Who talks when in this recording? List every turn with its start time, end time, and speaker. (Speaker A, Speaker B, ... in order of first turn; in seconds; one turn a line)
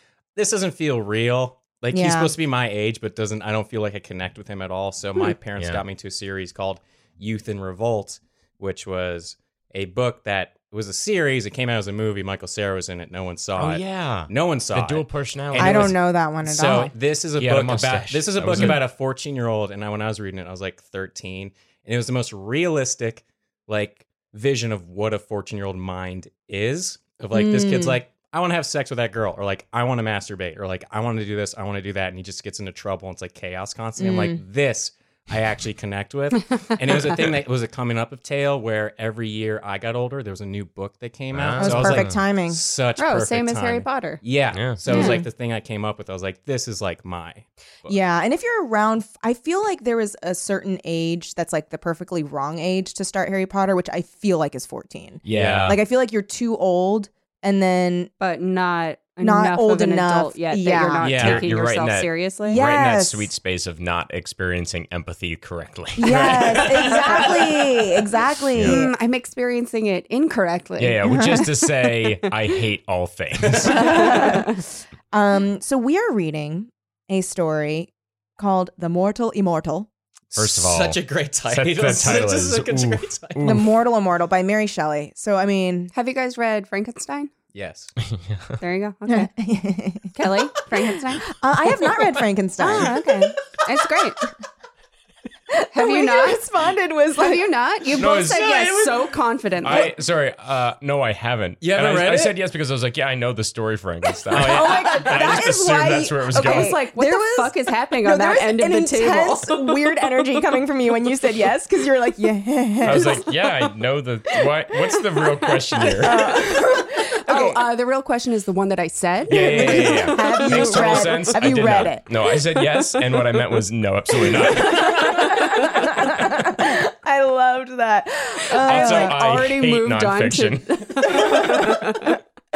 Speaker A: 0.3-47.5
Speaker B: 1.9-2.3
Speaker C: 5.6-5.8
Speaker C: 13.6-15.9
Speaker B: 15.5-16.9
Speaker C: 17.4-18.8
Speaker B: 27.3-28.0
Speaker B: 34.0-34.4
Speaker C: 41.3-42.2
Speaker B: 41.6-42.6
Speaker D: 43.0-44.2
Speaker C: 44.5-44.8
Speaker B: 44.9-45.3
Speaker B: 47.9-58.1
Speaker C: 55.2-55.8
Speaker A: 55.3-55.8
Speaker D: 58.2-62.6
Speaker B: 59.2-61.1
Speaker A: 61.0-61.5
Speaker C: 61.1-67.2
Speaker B: 62.5-63.3
Speaker B: 65.9-68.9
Speaker A: 66.1-67.2
Speaker C: 68.5-68.8
Speaker D: 68.6-71.1
Speaker C: 70.8-74.2
Speaker B: 71.0-71.7
Speaker B: 73.6-79.9
Speaker A: 80.3-83.6
Speaker C: 80.3-83.7
Speaker B: 83.4-85.9
Speaker D: 85.9-87.3
Speaker A: 87.5-87.9
Speaker C: 88.1-88.6
Speaker D: 88.6-89.3
Speaker B: 89.1-93.3
Speaker D: 90.1-91.3
Speaker D: 92.6-94.2
Speaker B: 95.5-97.5
Speaker D: 95.7-96.4
Speaker D: 97.2-99.9
Speaker A: 98.0-99.1
Speaker C: 98.0-98.3
Speaker C: 99.6-106.8
Speaker A: 101.6-102.4
Speaker A: 104.3-105.4
Speaker B: 104.3-113.3
Speaker D: 106.4-109.8
Speaker C: 112.8-116.2
Speaker B: 115.9-117.6
Speaker D: 116.2-121.1
Speaker C: 119.3-126.1
Speaker B: 119.3-122.8
Speaker B: 124.2-129.2
Speaker D: 128.5-132.2
Speaker C: 128.6-130.9
Speaker B: 131.1-131.8